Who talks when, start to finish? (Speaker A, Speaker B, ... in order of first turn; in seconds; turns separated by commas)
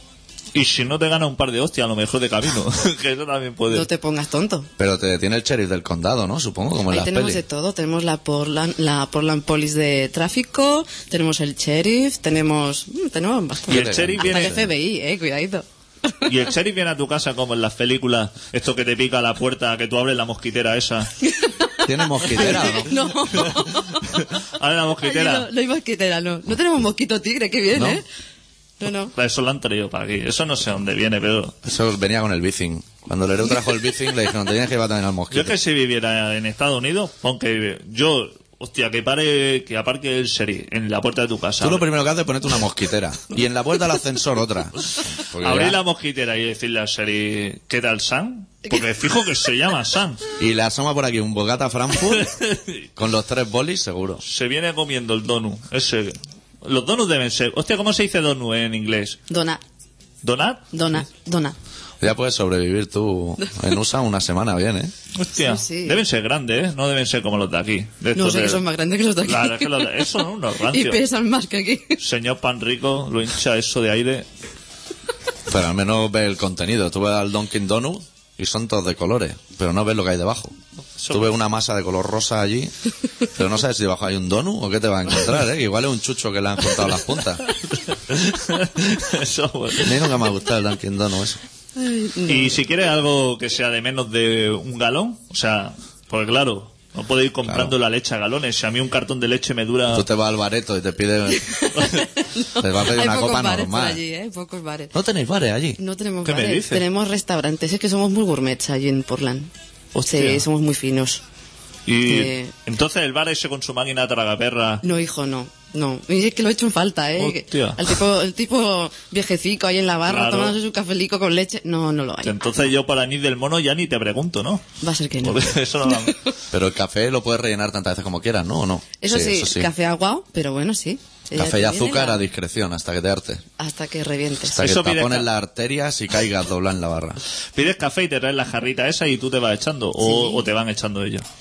Speaker A: 0.5-3.9, Speaker B: 3.7-4.7, Speaker C: 4.8-7.4, Speaker B: 6.9-16.3, Speaker A: 13.7-14.6, Speaker C: 13.7-14.7, Speaker A: 16.2-21.1, Speaker B: 21.2-21.7, Speaker C: 21.8-23.0, Speaker B: 22.2-24.3, Speaker A: 23.4-25.5, Speaker B: 25.0-28.0, Speaker C: 27.7-28.0, Speaker B: 28.8-29.1, Speaker A: 29.1-31.6, Speaker C: 31.6-35.5, Speaker A: 35.3-41.9, Speaker C: 41.6-45.8, Speaker A: 45.4-50.2, Speaker C: 50.4-52.3, Speaker A: 52.0-52.8, Speaker C: 53.0-54.2, Speaker A: 54.2-59.2, Speaker B: 59.3-59.6, Speaker A: 60.2-60.7, Speaker B: 60.7-61.5, Speaker C: 62.0-64.9, Speaker A: 65.2-68.6, Speaker B: 65.4-66.0, Speaker B: 68.1-70.1, Speaker A: 69.2-71.0, Speaker B: 70.6-72.0, Speaker A: 72.0-74.3, Speaker C: 75.5-80.5, Speaker A: 81.0-81.2, Speaker C: 81.1-82.7, Speaker C: 83.3-87.4, Speaker A: 87.7-90.1, Speaker C: 89.8-91.4, Speaker B: 91.8-92.6, Speaker A: 92.2-100.0, Speaker C: 97.4-97.7, Speaker C: 99.9-101.5, Speaker B: 101.3-104.9, Speaker C: 102.5-104.0, Speaker C: 104.9-105.8, Speaker B: 105.8-109.5, Speaker A: 106.2-106.8, Speaker A: 109.9-110.5, Speaker B: 110.0-111.2, Speaker A: 111.8-114.8, Speaker B: 112.0-112.5, Speaker B: 114.8-122.3, Speaker A: 117.2-117.8, Speaker A: 120.1-120.5, Speaker A: 122.2-124.7, Speaker B: 124.8-126.1, Speaker A: 125.2-126.2, Speaker C: 126.5-129.7, Speaker B: 129.0-132.2, Speaker C: 131.3-133.4, Speaker B: 133.6-134.6, Speaker A: 134.5-135.3, Speaker C: 134.6-137.2, Speaker A: 137.5-141.2, Speaker B: 140.0-140.4